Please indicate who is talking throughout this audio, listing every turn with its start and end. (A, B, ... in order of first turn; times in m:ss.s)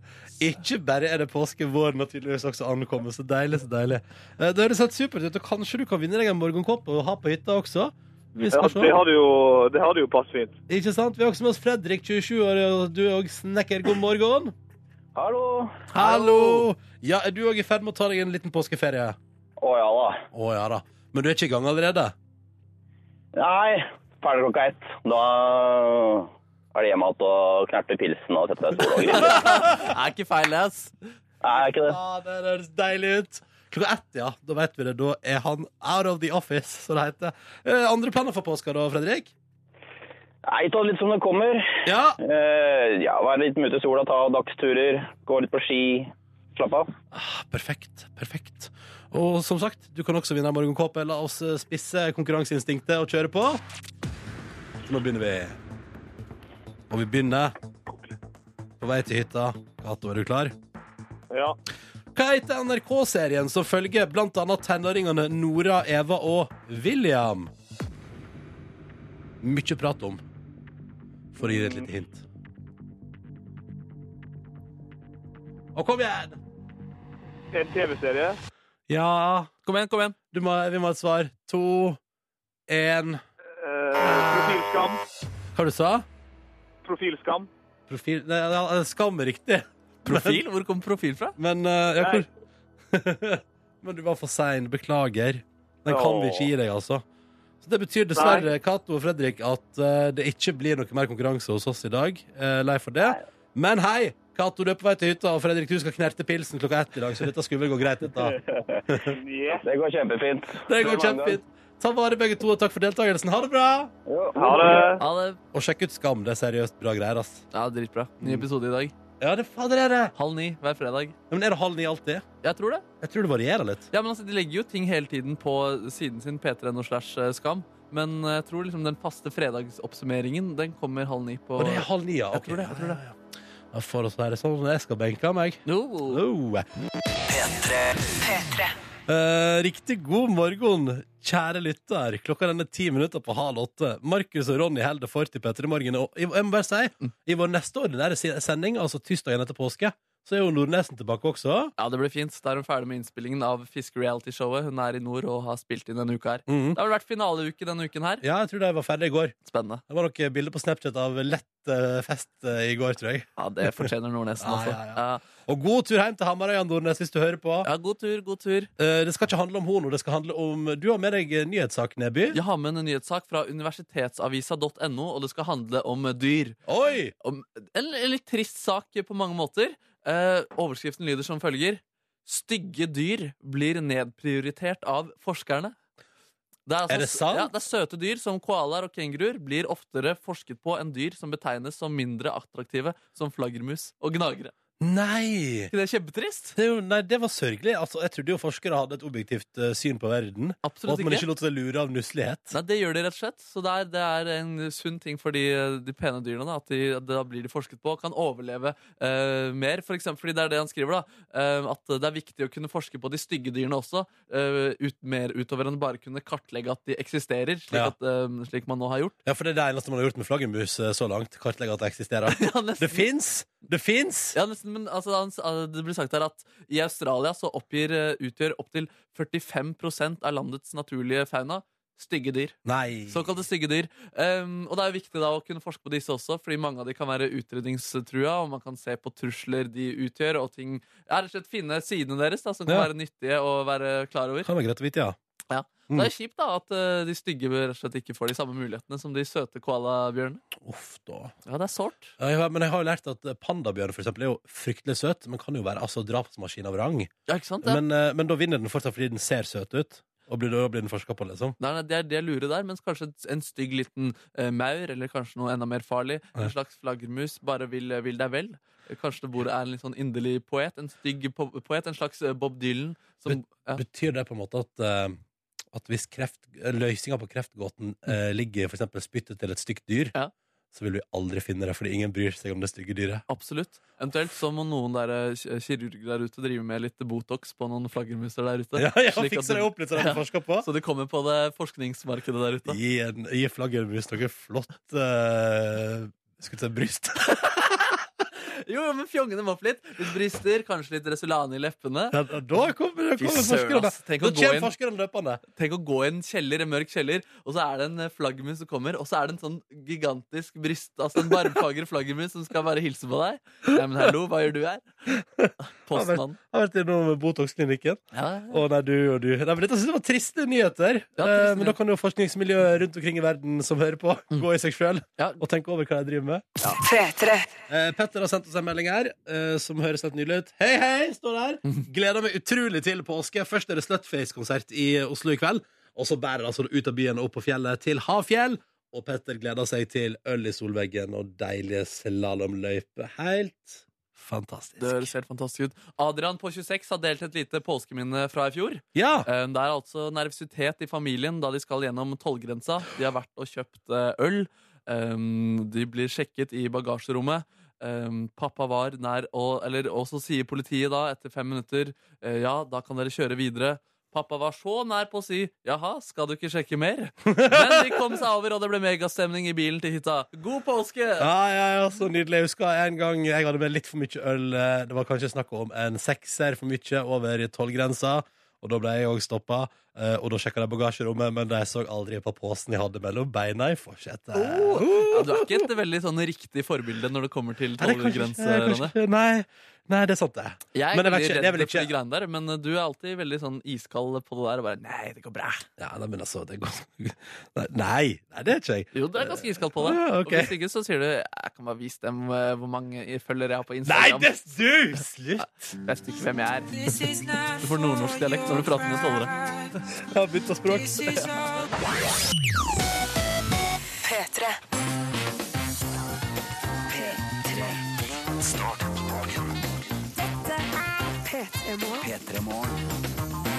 0:00.4-0:09.0 A
0:08.5-0:10.6 B
0:10.7-0:14.5 A
0:15.1-0:15.8 C
0:15.9-0:19.2 A
0:15.9-0:16.6 D
0:19.6-0:20.2 C
0:20.3-0:22.1 A
0:23.4-0:29.7 C
0:29.1-0:30.9 D
0:29.2-0:29.8 A
0:31.4-0:32.0 C
0:31.5-0:39.3 A
0:40.4-0:46.9 C
0:41.8-0:42.2 A
0:47.1-0:53.6 A
0:54.9-0:55.6 A
0:56.9-0:57.5 A
0:58.8-1:00.5 A
1:01.3-1:01.6 B
1:02.1-1:07.5 A
1:09.4-1:10.2 A
1:11.3-1:12.2 A
1:11.4-1:11.8 B
1:15.7-1:16.4 A
1:17.5-1:18.4 B
1:18.9-1:19.5 A
1:19.6-1:20.2 D
1:20.3-1:22.0 A
1:22.7-1:23.2 A
1:23.6-1:25.0 B
1:25.5-1:26.0 A
1:26.8-1:27.5 B
1:27.9-1:30.4 A
1:30.0-1:31.4 D
1:31.4-1:32.3 A
1:32.0-1:32.2 B
1:32.9-1:37.0 A
1:35.9-1:36.5 B
1:37.6-1:48.4 A
1:38.1-1:38.5 B
1:48.2-1:48.8 C
1:48.9-1:49.2 A
1:49.2-1:49.6 B
1:49.6-1:51.4 C
1:50.6-1:53.9 A
1:54.1-1:54.9 C
1:54.4-1:55.0 B
1:55.0-1:55.4 D
1:55.5-1:57.4 A
1:57.5-1:58.9 D
1:58.2-1:58.4 A
1:59.2-2:00.1 A
2:00.2-2:01.1 D
2:01.3-2:02.2 A
2:02.4-2:02.8 D
2:03.0-2:03.9 A
2:03.9-2:13.0 D
2:11.6-2:13.2 A
2:13.7-2:16.7 A
2:15.6-2:16.2 D
2:17.3-2:17.9 E
2:19.1-2:31.7 A
2:31.8-2:38.2 D
2:36.5-2:36.8 A
2:38.2-2:39.3 A
2:39.4-2:39.8 D
2:39.9-2:43.9 A
2:43.4-2:45.2 D
2:44.4-2:47.7 A
2:47.6-2:48.7 D
2:48.8-2:52.4 A
2:52.3-2:56.6 D
2:56.6-2:57.1 A
2:57.2-3:05.7 D
3:06.7-3:14.5 D
3:06.9-3:07.5 A
3:14.8-3:15.7 A
3:15.7-3:16.5 D
3:16.6-3:22.6 A
3:20.6-3:21.3 D
3:22.5-3:39.1 D
3:39.2-3:44.4 A
3:42.3-3:43.1 D
3:44.3-3:52.6 D
3:52.6-3:53.3 A
3:53.1-4:04.5 D
4:04.4-4:05.2 A
4:05.5-4:10.4 D
4:10.6-4:11.3 A
4:11.4-4:12.1 D
4:12.2-4:17.1 A
4:17.3-4:17.8 D
4:17.6-4:21.6 A
4:21.6-4:33.8 D
4:33.3-4:35.2 A
4:35.7-4:40.1 A
4:40.7-4:43.2 A
4:43.3-4:52.8 D
4:48.8-4:50.7 A
4:52.6-4:58.0 A
4:58.5-5:02.2 D
5:02.1-5:05.4 A
5:03.2-5:04.7 D
5:05.6-5:14.9 D
5:15.1-5:26.5 A
5:15.6-5:16.4 D
5:18.1-5:18.6 D
5:21.2-5:21.8 D
5:26.7-5:27.5 F
5:27.7-5:45.1 A
5:44.8-6:11.3 D
5:48.9-5:49.3 A
6:07.3-6:08.2 A
6:11.2-6:25.7 A
6:24.3-6:28.9 D
6:27.8-6:31.9 A
6:30.7-6:35.6 D
6:35.8-6:40.6 A
6:38.9-6:44.4 D
6:43.8-6:45.4 A
6:45.4-6:46.8 D
6:47.6-6:49.3 D
6:49.9-6:51.2 A
6:51.0-6:51.3 D
6:54.0-6:54.6 F
6:56.9-6:57.7 F
6:58.4-6:59.4 E
7:00.2-7:02.2 F
7:02.0-7:02.7 E